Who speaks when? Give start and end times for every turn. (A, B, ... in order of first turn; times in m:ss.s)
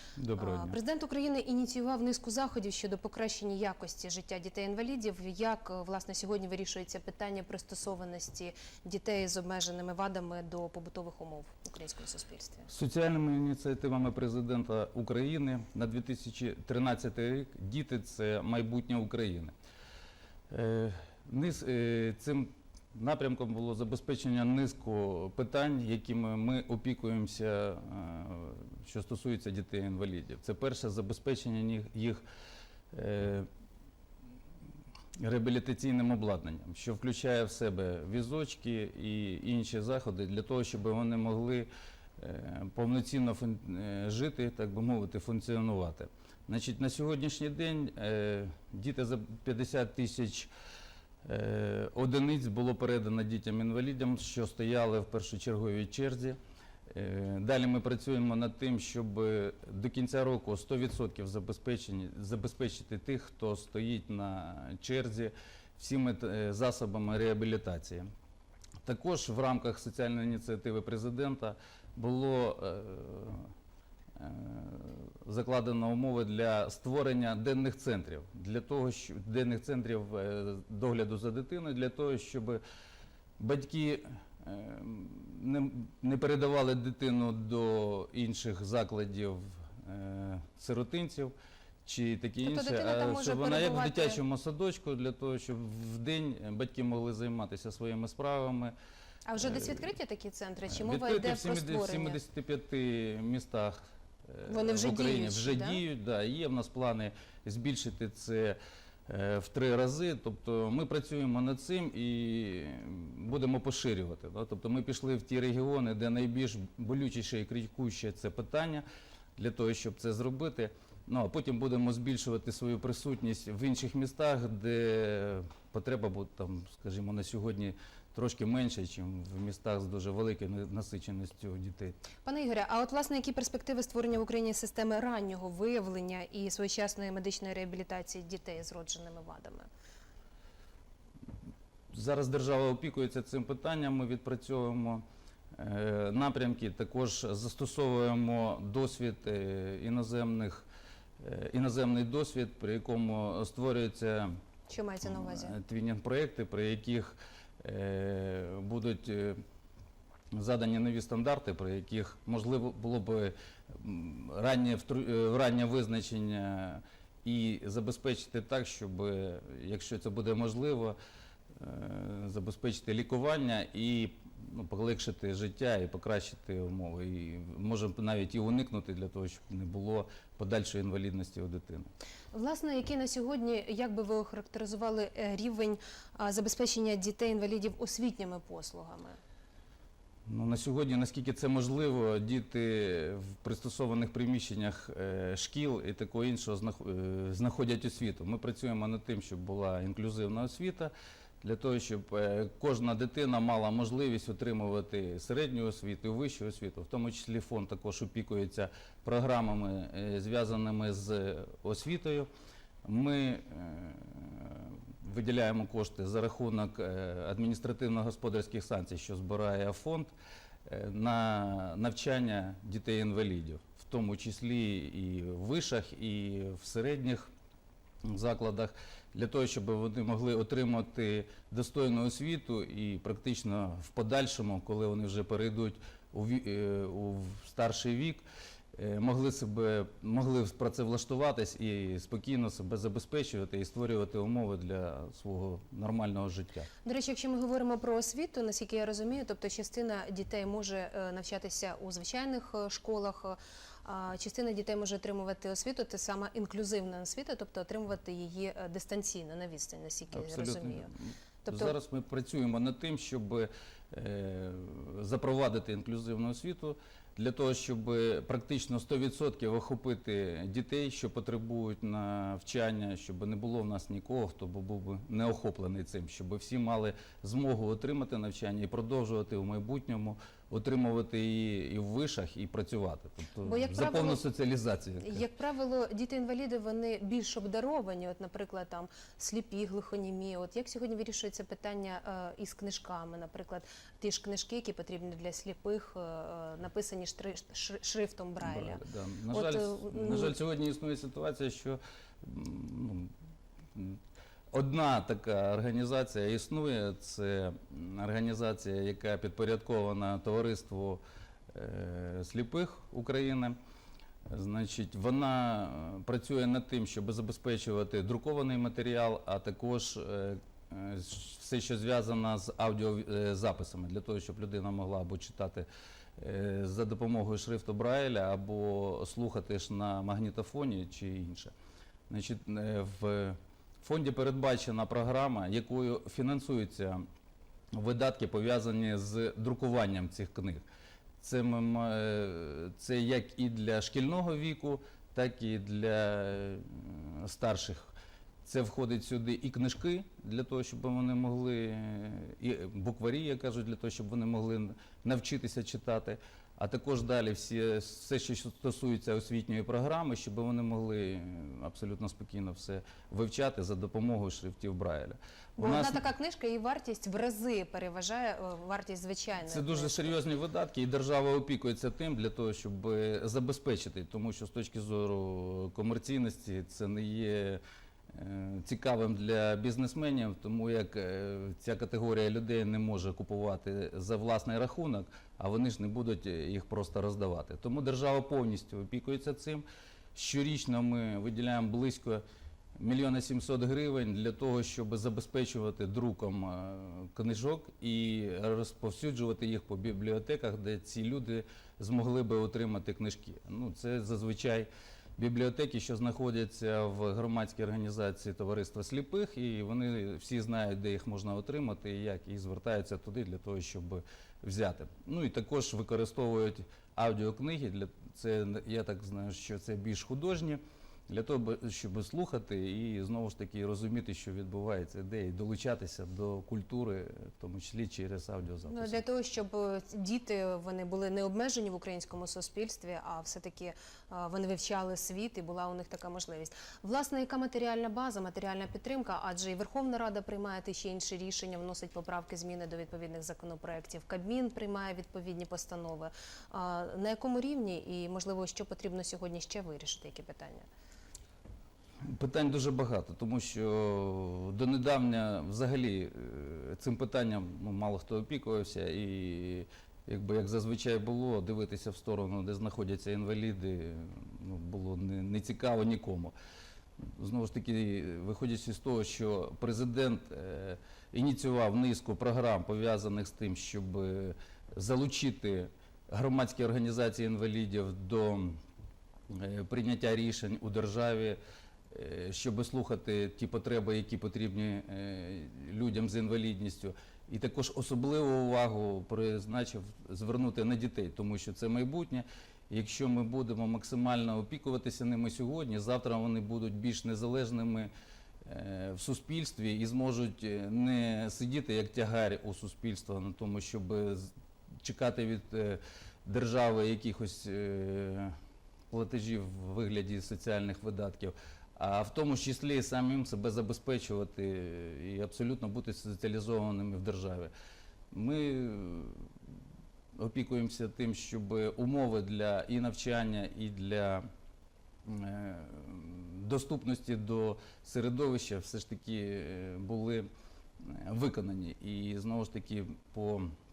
0:00.2-0:00.8 A
0:00.4-0:12.7 B
0:12.7-0:19.5 A
0:20.5-0:32.2 A
0:32.9-0:33.5 A
0:35.2-0:50.5 A
0:51.2-0:56.4 A
0:56.9-1:08.1 A
1:08.8-1:13.5 A
1:14.2-1:22.6 A
1:23.4-1:31.3 A
1:31.8-1:38.7 A
1:32.4-1:34.2 B
1:39.3-1:42.2 B
1:39.4-1:39.8 A
1:40.7-1:43.8 A
1:44.3-1:58.8 A
1:44.5-1:45.8 B
1:59.4-2:12.0 A
2:12.2-2:19.7 B
2:21.9-2:30.7 A
2:31.2-2:34.4 A
2:34.7-2:35.6 B
2:35.0-2:39.4 A
2:40.3-2:51.0 A
2:51.6-3:01.9 A
3:02.3-3:09.2 B
3:10.3-3:32.3 A
3:32.8-3:40.1 A
3:40.7-3:47.3 A
3:48.0-3:58.2 A
3:58.8-4:06.7 A
4:06.8-4:20.9 B
4:20.1-4:45.2 A
4:21.4-4:21.8 B
4:43.4-4:44.2 B
4:45.0-5:00.4 B
4:58.4-5:03.1 A
5:03.7-5:04.0 A
5:04.5-5:13.6 A
5:14.3-5:25.7 A
5:26.2-5:31.5 A
5:32.1-5:37.0 A
5:37.7-5:40.6 A
5:41.2-5:47.9 A
5:48.4-6:06.0 A
6:05.6-6:10.2 B
6:09.5-6:17.6 A
6:18.1-6:32.2 A
6:32.8-7:09.0 A
7:08.7-7:30.7 B
7:32.0-7:46.4 A
7:47.2-7:58.6 A
7:59.3-8:01.4 A
8:01.9-8:17.9 A
8:18.4-8:24.3 A
8:24.8-8:28.4 A
8:28.9-8:37.5 A
8:38.1-8:39.3 A
8:40.2-8:44.2 A
8:45.1-8:50.3 A
8:50.8-8:53.5 A